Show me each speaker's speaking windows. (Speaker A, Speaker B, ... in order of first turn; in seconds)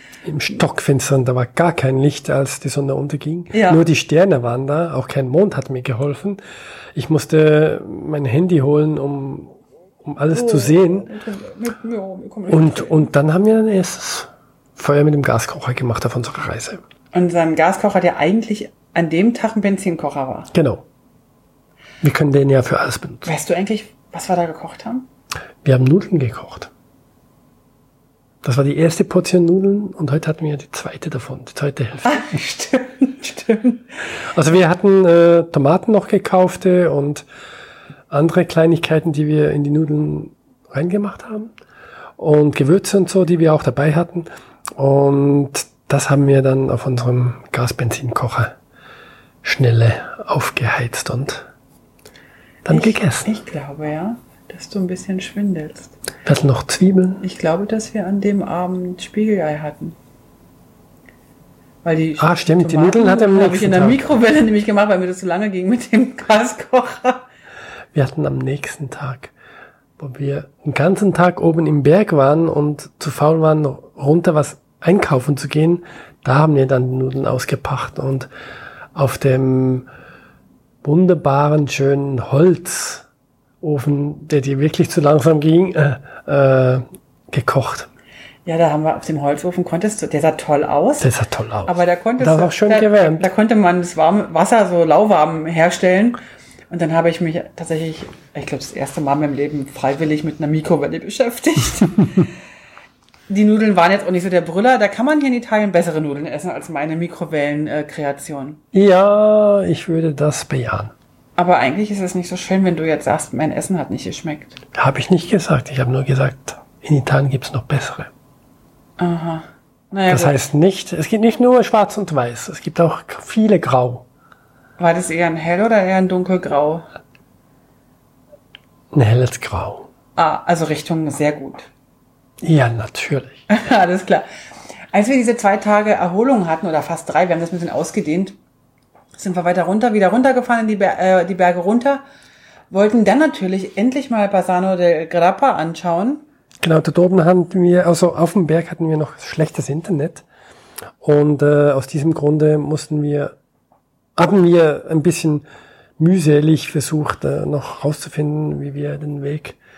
Speaker A: 0.2-6.4, 6.9-11.1, 12.5-16.8, 20.5-20.8, 22.0-23.3, 25.6-26.7, 28.4-32.3, 34.3-37.2, 38.1-41.5, 42.2-48.5, 49.4-51.5, 52.6-53.3, 56.2-57.2, 62.2-64.0, 67.9-69.3, 70.0-78.3, 78.9-79.8, 80.8-83.0, 83.6-87.9, 91.0-93.3, 108.7-110.9, 114.7-118.1, 120.1-124.0, 128.9-129.9, 132.4-133.4, 146.6-150.2, 151.0-153.3, 154.2-155.4, 156.0-159.6
Speaker B: 3.5-3.8, 10.3-13.1, 17.1-20.5, 23.2-25.1, 32.0-33.9, 52.7-55.9, 57.2-60.0, 61.8-67.2, 88.4-91.1, 91.7-96.2, 96.7-102.2, 103.3-108.6, 111.4-114.6, 119.0-120.4, 124.8-126.8, 130.2-131.7, 133.5-134.2, 134.9-138.4, 139.2-142.0, 142.7-146.2